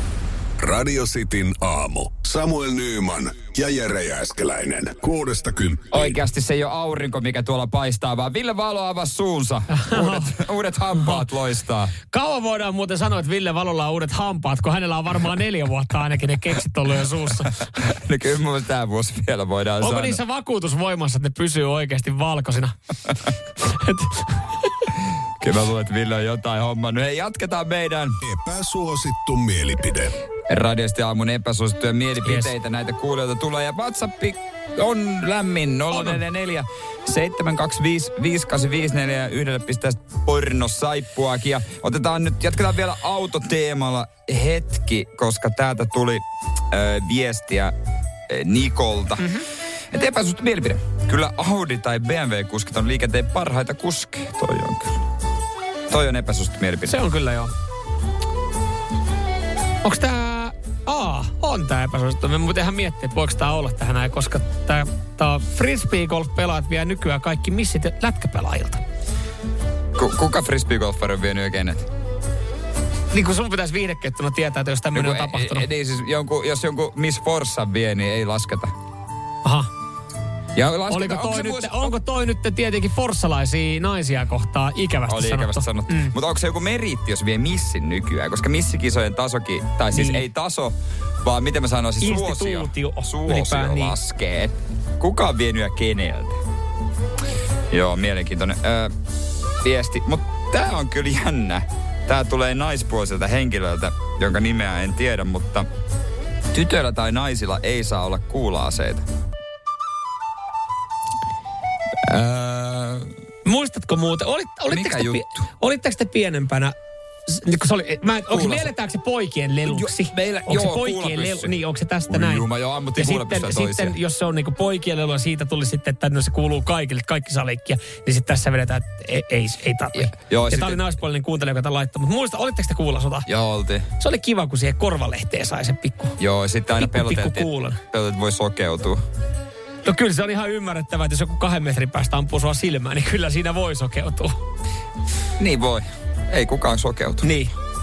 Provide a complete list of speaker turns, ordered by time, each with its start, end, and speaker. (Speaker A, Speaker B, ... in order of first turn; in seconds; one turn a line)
Speaker A: 0.6-6.1
Speaker B: 5.9-11.9
Speaker C: 9.7-10.3
Speaker C: 12.1-17.6
Speaker B: 17.8-20.2
Speaker C: 19.8-22.7
Speaker C: 23.6-24.7
Speaker B: 25.4-28.2
Speaker A: 28.2-30.1
Speaker B: 30.5-47.7
Speaker C: 32.2-32.5
Speaker C: 35.9-36.2
Speaker B: 48.3-49.4
Speaker C: 49.2-49.5
Speaker B: 49.9-55.0
Speaker B: 55.9-57.0
Speaker C: 56.9-57.5
Speaker C: 59.8-68.8
Speaker B: 70.0-71.9
Speaker C: 73.1-75.7
Speaker B: 74.9-78.7
Speaker C: 79.4-79.7
Speaker B: 80.5-82.0
Speaker C: 80.9-86.1
Speaker B: 85.1-96.3
Speaker C: 89.9-90.3
Speaker C: 92.0-94.0
Speaker B: 97.7-98.9
Speaker B: 99.6-105.7
Speaker B: 106.5-109.0
Speaker B: 112.0-113.1
Speaker C: 113.5-116.8
Speaker B: 114.7-115.4
Speaker C: 117.3-133.3
Speaker B: 118.3-118.7
Speaker B: 119.7-121.5
Speaker B: 122.1-124.0
Speaker B: 129.9-130.8
Speaker B: 133.3-133.9
Speaker C: 134.0-136.2
Speaker B: 136.2-139.0
Speaker C: 136.8-137.8
Speaker C: 139.8-144.3
Speaker B: 145.4-147.3
Speaker C: 147.2-147.5